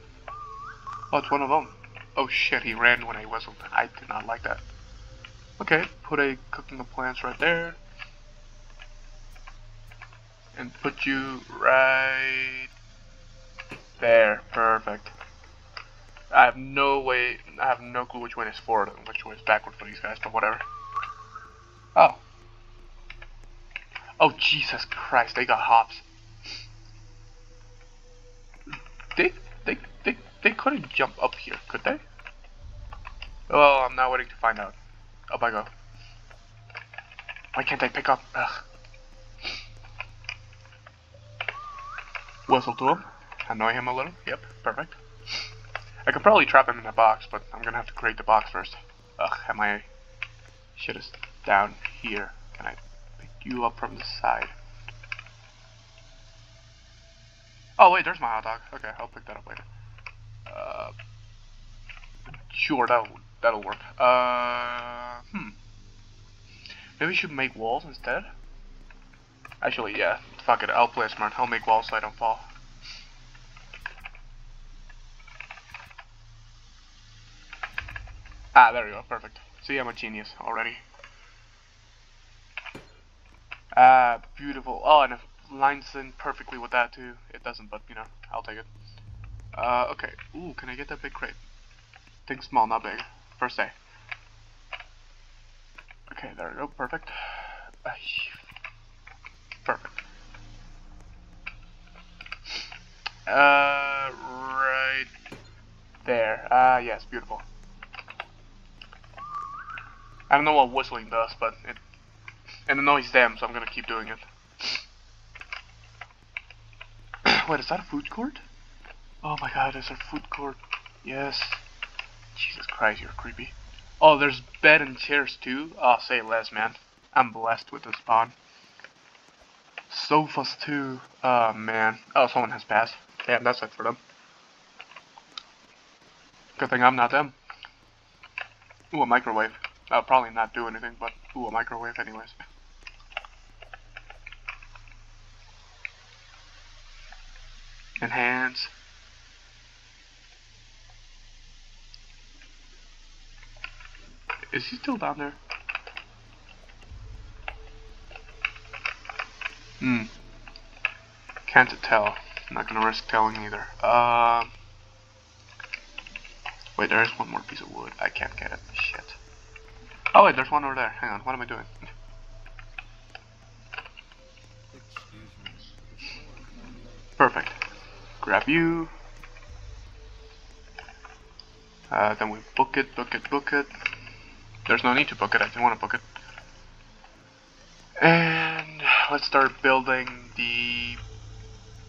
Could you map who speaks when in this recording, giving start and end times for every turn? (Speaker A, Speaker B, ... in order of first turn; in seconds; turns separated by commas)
Speaker A: 1.1-4.6, Speaker A: 5.6-7.8, Speaker A: 10.6-12.7, Speaker A: 14.0-15.1, Speaker A: 16.3-20.6, Speaker A: 21.9-22.2, Speaker A: 24.2-26.1, Speaker A: 28.7-32.0, Speaker A: 33.5-34.8, Speaker A: 35.3-35.7, Speaker A: 37.5-38.6, Speaker A: 42.5-45.5, Speaker A: 46.1-49.9, Speaker A: 50.8-54.5, Speaker A: 57.8-59.7, Speaker A: 60.5-60.9, Speaker A: 62.5-65.5, Speaker A: 67.0-68.3, Speaker A: 69.6-72.5, Speaker A: 78.5-80.8, Speaker A: 83.7-88.7, Speaker A: 89.5-91.4, Speaker A: 92.3-93.8, Speaker A: 96.1-98.4, Speaker A: 99.7-100.0, Speaker A: 103.3-105.1, Speaker A: 106.0-107.5, Speaker A: 110.3-111.8, Speaker A: 112.7-114.8, Speaker A: 117.2-118.4, Speaker A: 119.2-121.6, Speaker A: 122.3-128.3, Speaker A: 129.9-134.0, Speaker A: 136.6-137.4, Speaker A: 138.9-142.4, Speaker A: 148.0-148.7, Speaker A: 154.5-155.4, Speaker A: 159.8-160.1, Speaker A: 161.5-164.5, Speaker A: 166.8-169.2, Speaker A: 170.1-171.7, Speaker A: 177.2-177.6, Speaker A: 178.2-178.9, Speaker A: 181.9-183.7, Speaker A: 184.7-186.0, Speaker A: 188.0-191.0